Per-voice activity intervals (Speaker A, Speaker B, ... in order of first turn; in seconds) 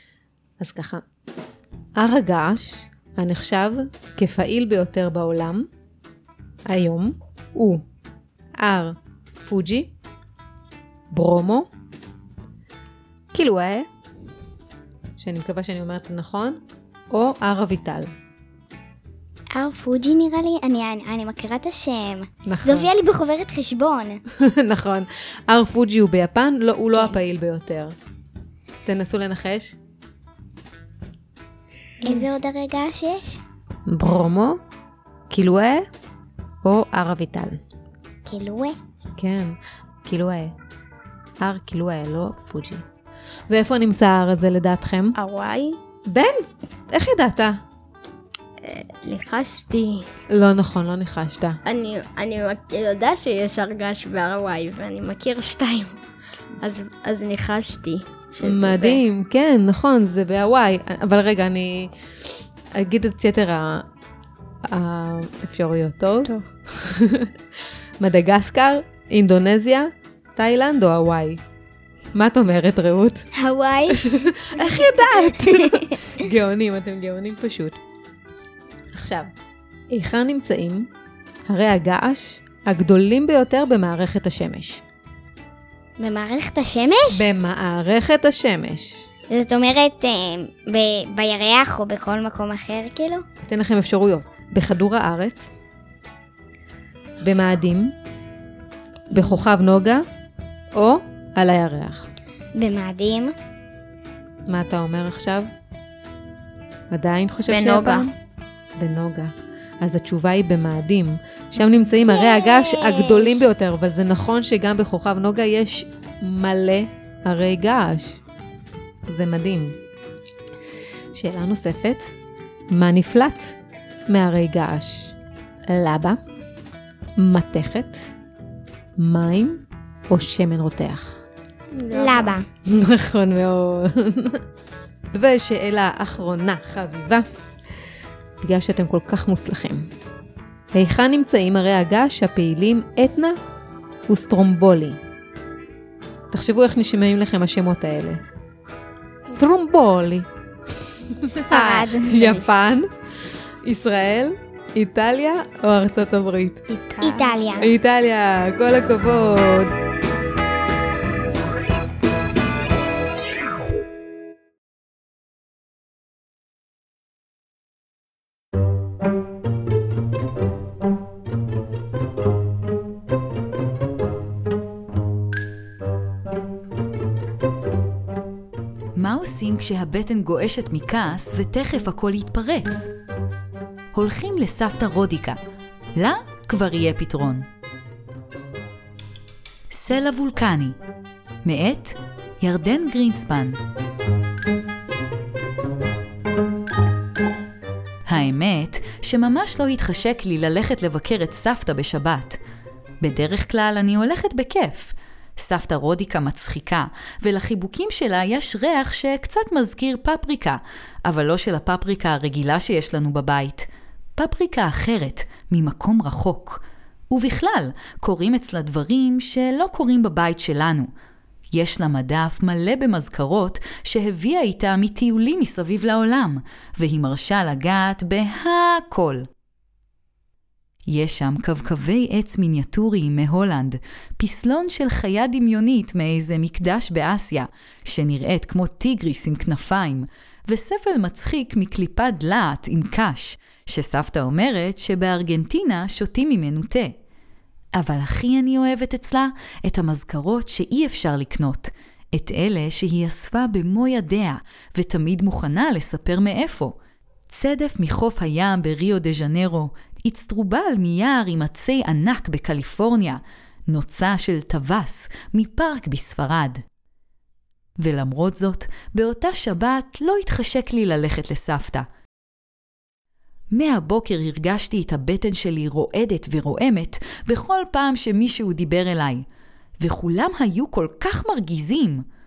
Speaker A: 0.6-1.0, 2.0-5.7, 6.7-7.8, 8.6-9.9, 11.1-11.7, 13.3-13.9, 15.2-18.1, 22.5-22.9, 24.4-27.9, 28.9-29.8, 33.9-34.6, 35.3-35.9, 36.6-37.6, 39.2-40.5, 41.4-42.8, 43.5-45.1, 46.1-47.6, 50.3-51.6, 58.4-61.9, 62.7-63.8, 64.7-67.3, 68.0-71.4, 72.1-73.3, 74.0-77.8, 78.9-79.3, 79.9-80.9, 81.5-84.8, 87.1-89.1, 93.4-95.5, 97.2-97.9, 99.1-100.0, 100.7-102.1, 104.5-105.5, 106.9-108.1, 108.8-118.2, 119.1-119.8, 121.1-122.1, 122.7-123.6, 124.1-125.2, 125.7-126.2, 127.2-128.1, 129.0-131.2, 132.7-134.4, 135.1-137.3, 138.4-139.9, 140.7-143.4, 144.1-145.0, 146.3-148.2, 149.2-150.3, 151.1-152.9, 153.6-156.6, 157.6-159.7
Speaker B: 19.5-24.2, 32.0-33.4, 38.2-38.8, 73.3-75.8, 86.0-87.2, 89.3-93.2, 99.1-99.4, 102.5-103.3, 112.1-113.5, 131.9-132.5, 151.5-152.4, 157.0-157.7
Speaker C: 45.1-45.8, 48.6-50.1, 51.6-56.0, 56.6-59.0, 107.5-108.1, 131.7-132.4, 156.7-157.4
Speaker D: 178.9-182.9, 183.9-185.4, 185.9-187.5, 189.7-190.8, 191.4-193.6, 198.1-202.4, 203.0-220.9, 221.5-229.3, 230.9-246.9, 247.8-256.8, 257.3-266.6, 267.8-271.9, 273.5-279.2, 279.8-282.0